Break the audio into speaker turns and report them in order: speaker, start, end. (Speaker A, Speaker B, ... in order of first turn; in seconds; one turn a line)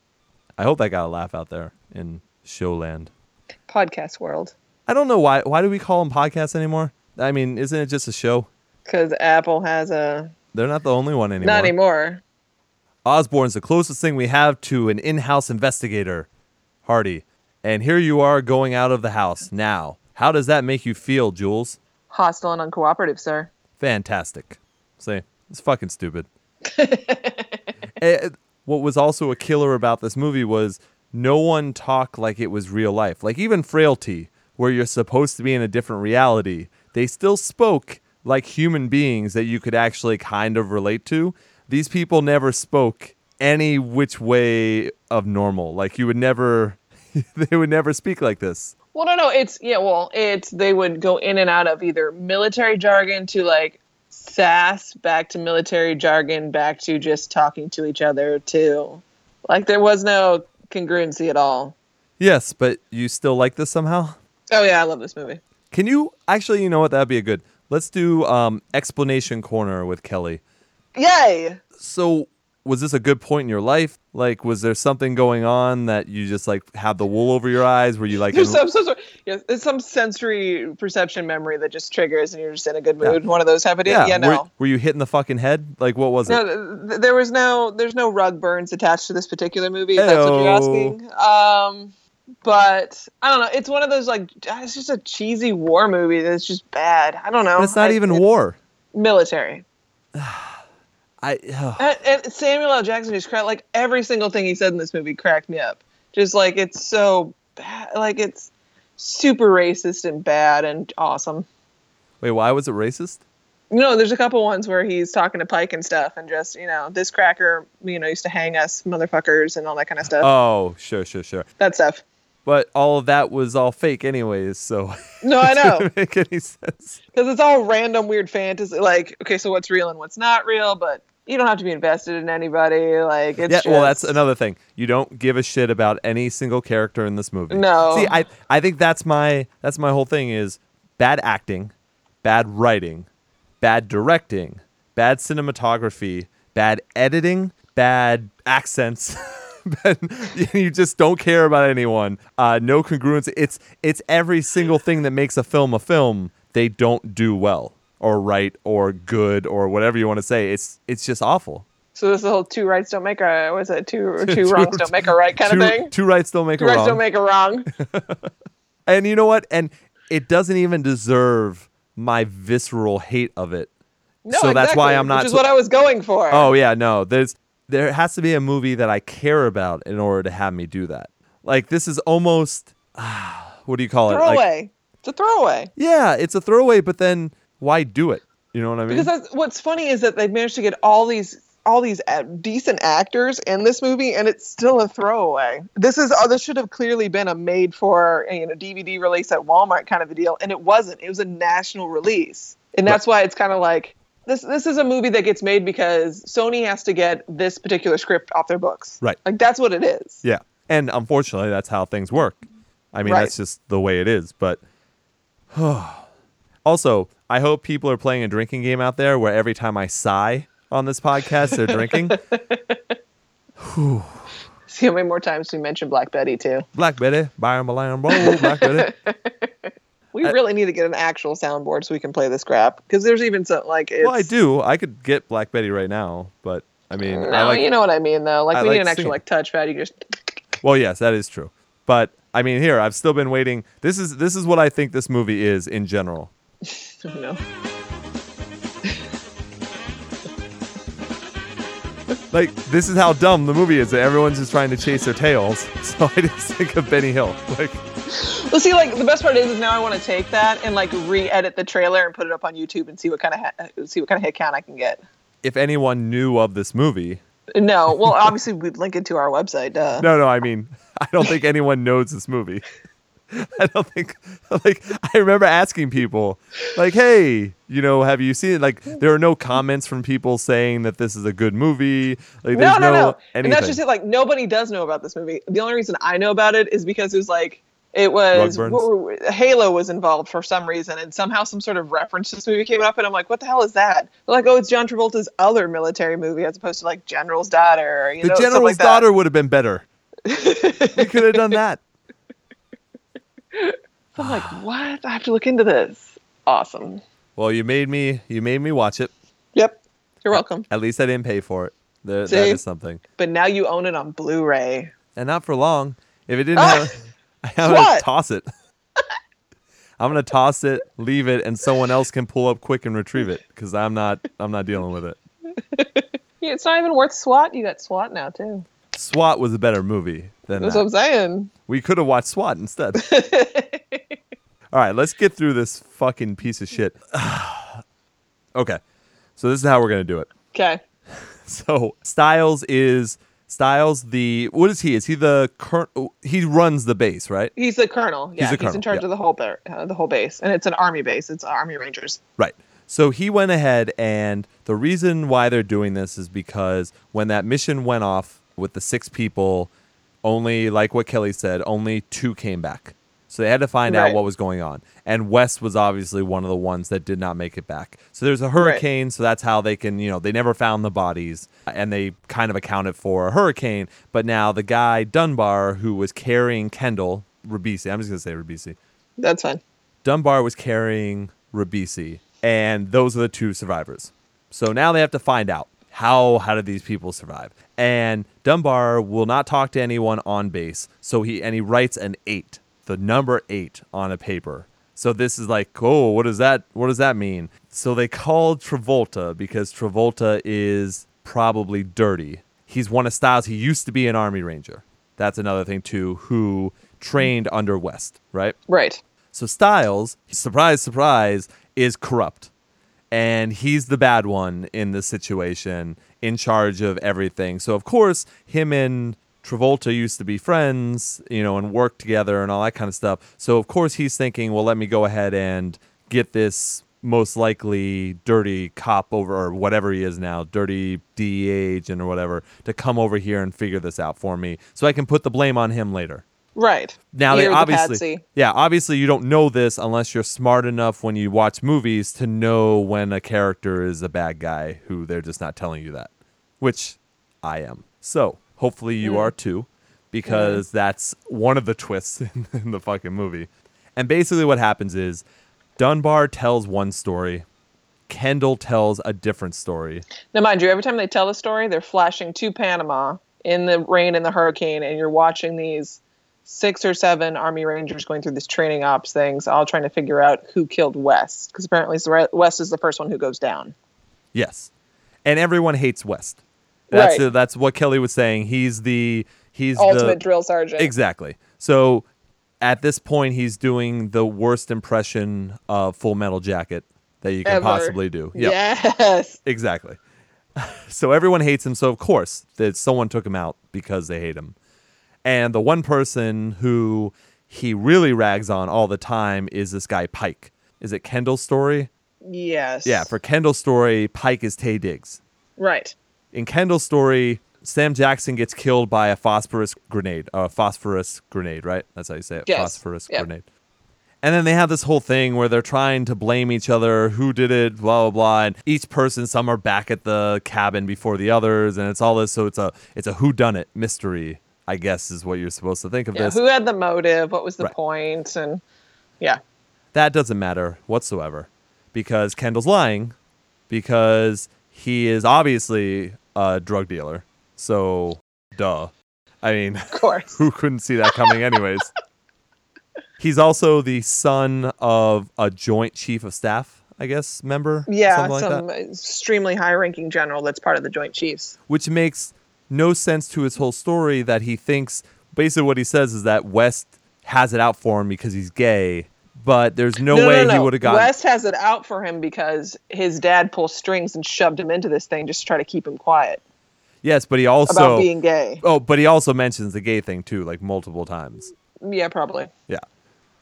Speaker A: 0.6-3.1
Speaker B: 3.7-4.5
Speaker A: 4.9-8.5
Speaker B: 8.8-10.3
Speaker A: 10.5-11.7
Speaker B: 11.4-12.2
Speaker A: 13.0-16.3
Speaker A: 16.8-21.8
Speaker B: 22.1-23.5
Speaker A: 23.8-26.3
Speaker B: 26.7-27.5
Speaker A: 28.0-48.7
Speaker B: 48.9-61.7
Speaker A: 62.2-64.2
Speaker B: 64.5-65.4
Speaker A: 65.7-70.4
Speaker B: 70.9-71.6
Speaker A: 71.8-78.6
Speaker B: 78.3-84.5
Speaker A: 83.8-86.4
Speaker B: 86.3-91.9
Speaker A: 90.0-91.0
Speaker B: 92.4-98.2
Speaker A: 97.6-98.6
Speaker B: 98.9-99.6
Speaker A: 100.1-100.6
Speaker A: 101.2-101.8
Speaker B: 101.8-111.5
Speaker A: 112.2-113.2
Speaker B: 113.7-120.3
Speaker A: 120.2-121.5
Speaker B: 121.6-122.0
Speaker A: 122.5-127.0
Speaker B: 125.2-125.9
Speaker B: 127.1-134.2
Speaker A: 133.5-143.1
Speaker B: 137.5-138.1
Speaker A: 143.6-161.6
Speaker B: 161.9-165.9
Speaker A: 164.2-167.0
Speaker B: 166.6-167.7
Speaker A: 167.8-168.3
Speaker A: 168.8-173.7
Speaker B: 174.2-176.5
Speaker A: 174.3-175.4
Speaker A: 176.3-184.4
Speaker B: 184.1-185.7
Speaker A: 185.8-189.1
Speaker B: 188.9-210.2
Speaker A: 210.2-212.4
Speaker A: 212.9-214.6
Speaker B: 213.0-213.3
Speaker A: 215.5-216.1
Speaker A: 216.6-222.2
Speaker B: 221.7-222.8
Speaker A: 223.6-224.2
Speaker B: 224.7-226.7
Speaker A: 226.7-228.9
Speaker B: 228.1-229.5
Speaker B: 230.1-234.3
Speaker A: 234.0-237.7
Speaker B: 237.1-239.9
Speaker A: 238.5-239.2
Speaker A: 240.6-246.3
Speaker B: 247.0-247.4
Speaker A: 252.3-257.8
Speaker B: 258.1-265.0
Speaker A: 265.4-267.2
Speaker B: 267.5-270.1
Speaker A: 270.0-272.6
Speaker A: 273.3-283.8
Speaker B: 282.5-299.0
Speaker A: 288.3-288.9
Speaker A: 298.2-299.9
Speaker B: 300.2-301.6
Speaker A: 300.9-301.8
Speaker B: 303.5-307.0
Speaker A: 304.2-304.6
Speaker A: 307.4-309.1
Speaker B: 309.5-310.7
Speaker A: 310.3-313.0
Speaker B: 312.3-312.6
Speaker B: 313.2-314.9
Speaker A: 315.1-318.4
Speaker B: 316.5-316.9
Speaker B: 317.6-318.1
Speaker A: 320.0-325.2
Speaker B: 325.7-328.6
Speaker A: 328.9-330.9
Speaker B: 330.6-331.5
Speaker A: 331.7-333.1
Speaker B: 332.9-334.0
Speaker A: 334.7-337.8
Speaker A: 338.5-338.8
Speaker A: 339.4-340.3
Speaker B: 340.5-340.8
Speaker A: 341.4-347.5
Speaker B: 347.6-352.2
Speaker A: 348.4-349.0
Speaker A: 352.4-359.7
Speaker A: 360.2-378.8
Speaker B: 363.9-364.2
Speaker B: 368.6-368.8
Speaker B: 379.2-379.6
Speaker A: 380.0-408.6
Speaker B: 408.7-409.0
Speaker A: 409.3-412.5
Speaker A: 413.1-436.2
Speaker B: 436.6-438.2
Speaker A: 437.1-455.2
Speaker B: 449.0-449.3
Speaker B: 450.2-450.6
Speaker A: 455.8-457.4
Speaker A: 458.1-460.0
Speaker B: 460.3-473.7
Speaker A: 474.3-474.7
Speaker A: 475.2-476.4
Speaker B: 476.9-477.2
Speaker A: 476.9-480.2
Speaker B: 479.8-480.9
Speaker A: 480.8-482.1
Speaker A: 482.6-488.6
Speaker B: 487.4-489.4
Speaker A: 489.4-490.0
Speaker A: 490.6-494.5
Speaker A: 495.2-501.9
Speaker B: 502.2-503.1
Speaker A: 502.8-505.2
Speaker B: 505.6-505.9
Speaker A: 506.3-513.4
Speaker B: 512.5-513.3
Speaker A: 514.2-526.4
Speaker B: 526.1-528.6
Speaker A: 529.9-533.1
Speaker A: 533.7-541.9
Speaker B: 539.9-540.4
Speaker A: 543.2-548.6
Speaker B: 547.9-551.5
Speaker A: 551.7-561.1
Speaker B: 560.1-566.4
Speaker A: 567.0-568.1
Speaker B: 567.7-568.6
Speaker A: 568.6-571.5
Speaker B: 571.8-572.5